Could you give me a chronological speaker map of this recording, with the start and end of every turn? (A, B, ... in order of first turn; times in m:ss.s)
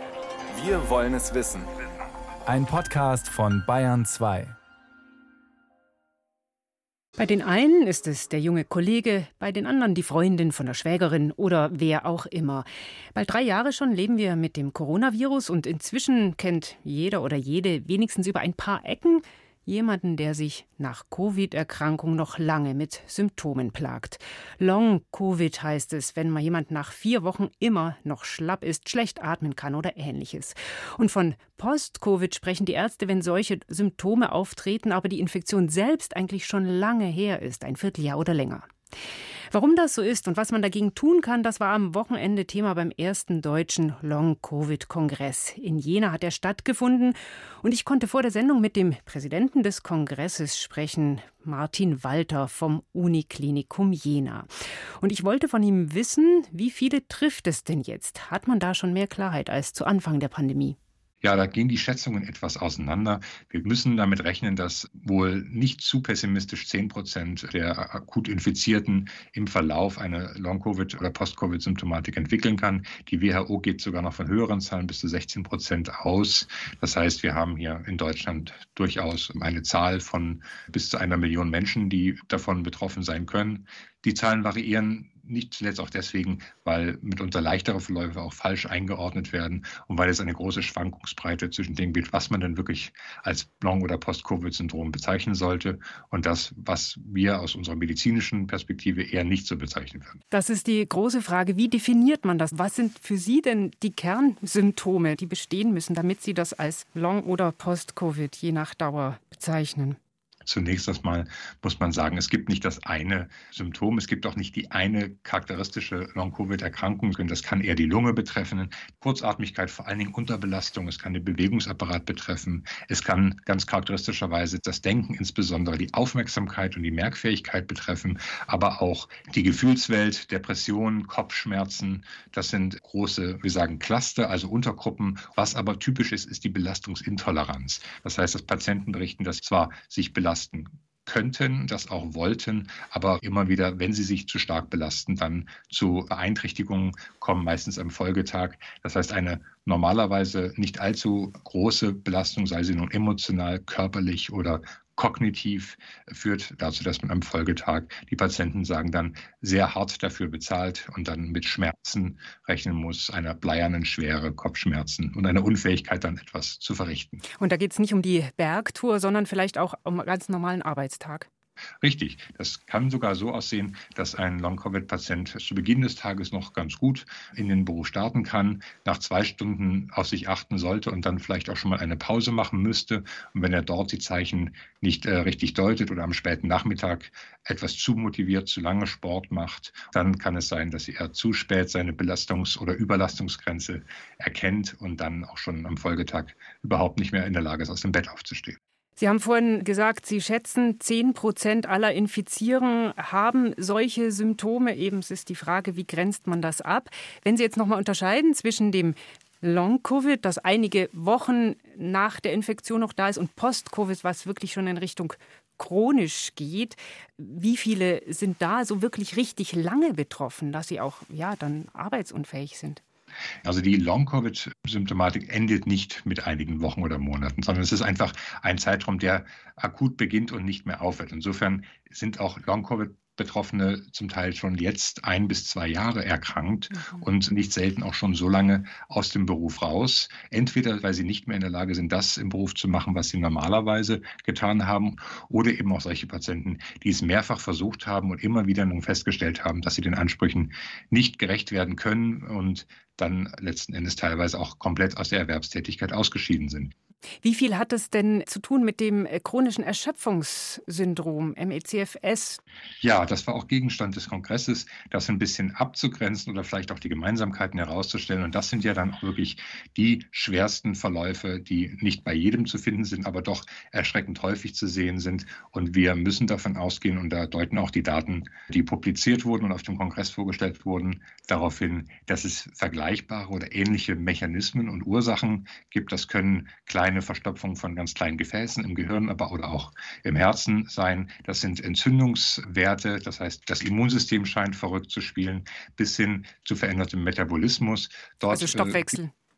0:00.5-0:01.7 A
0:02.5-0:04.6 A
0:07.2-0:38.6 B
0:39.5-0:54.5 B
0:55.0-1:00.8 B
1:01.2-1:40.2 C
1:40.3-1:50.0 B
1:50.5-2:47.2 C
2:47.4-2:51.3 B
2:51.8-3:18.6 C
3:19.0-3:42.8 B
3:43.4-4:16.7 C
3:56.7-3:57.0 B
4:17.2-4:22.4 B
4:22.8-4:59.0 C
4:58.3-4:59.1 B